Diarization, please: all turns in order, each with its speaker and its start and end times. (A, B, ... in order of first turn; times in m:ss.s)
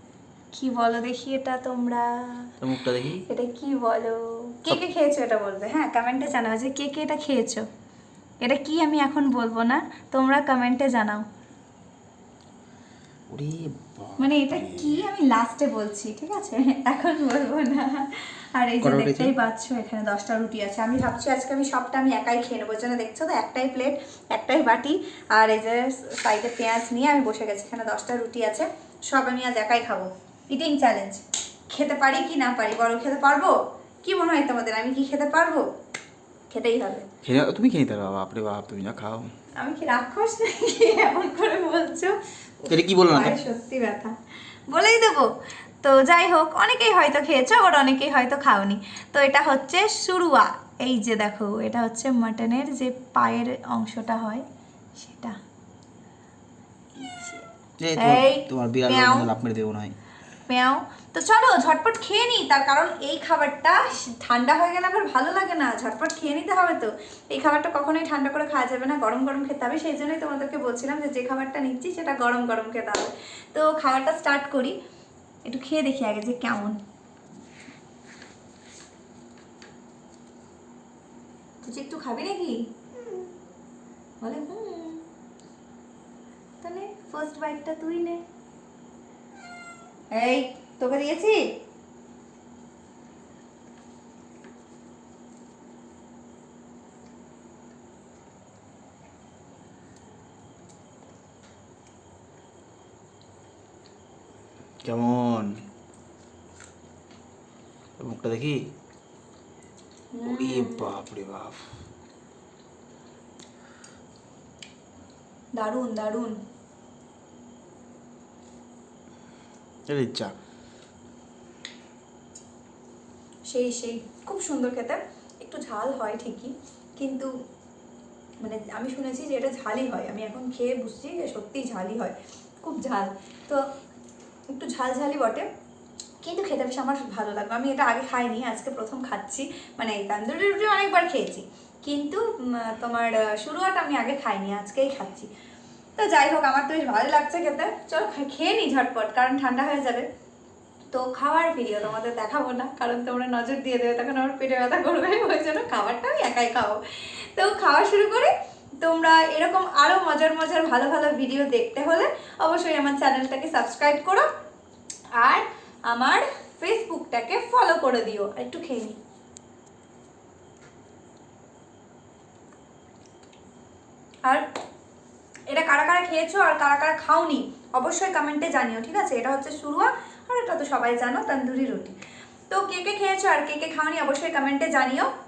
0:00.5-0:02.5 A
0:02.6-0:03.2 B
0:03.2-0:07.7 A
0:08.4-0:11.2 A
0:13.3-0:15.0 B
0:14.2-0:35.6 A
0:18.8-0:19.3 B
0:36.5-0:37.1 A
0:37.2-0:39.3 B
0:39.6-0:44.1 A
0:42.7-0:43.4 B
0:44.7-0:45.3 A
0:45.8-0:54.4 A
0:55.0-0:55.4 A
0:57.0-0:57.5 A
0:57.8-0:59.9 B
0:58.0-0:59.3 A
1:00.5-1:14.7 A
1:15.4-1:16.8 A
1:21.6-1:23.3 A
1:24.2-1:25.0 A
1:26.6-1:28.2 A
1:30.1-1:31.6 A
1:44.8-1:45.6 B
1:48.0-1:48.6 B
1:50.1-1:51.0 A
1:50.2-1:51.6 B
1:55.6-1:56.3 A
1:59.9-2:00.3 B
2:03.5-2:07.3 A
2:08.4-2:13.6 A
2:14.5-2:15.5 A
2:16.2-2:25.3 A
2:26.0-2:30.1 A
2:30.9-2:38.3 A
2:38.8-2:44.3 A
2:45.2-2:49.0 A
2:55.5-3:02.0 A
3:02.5-3:05.1 A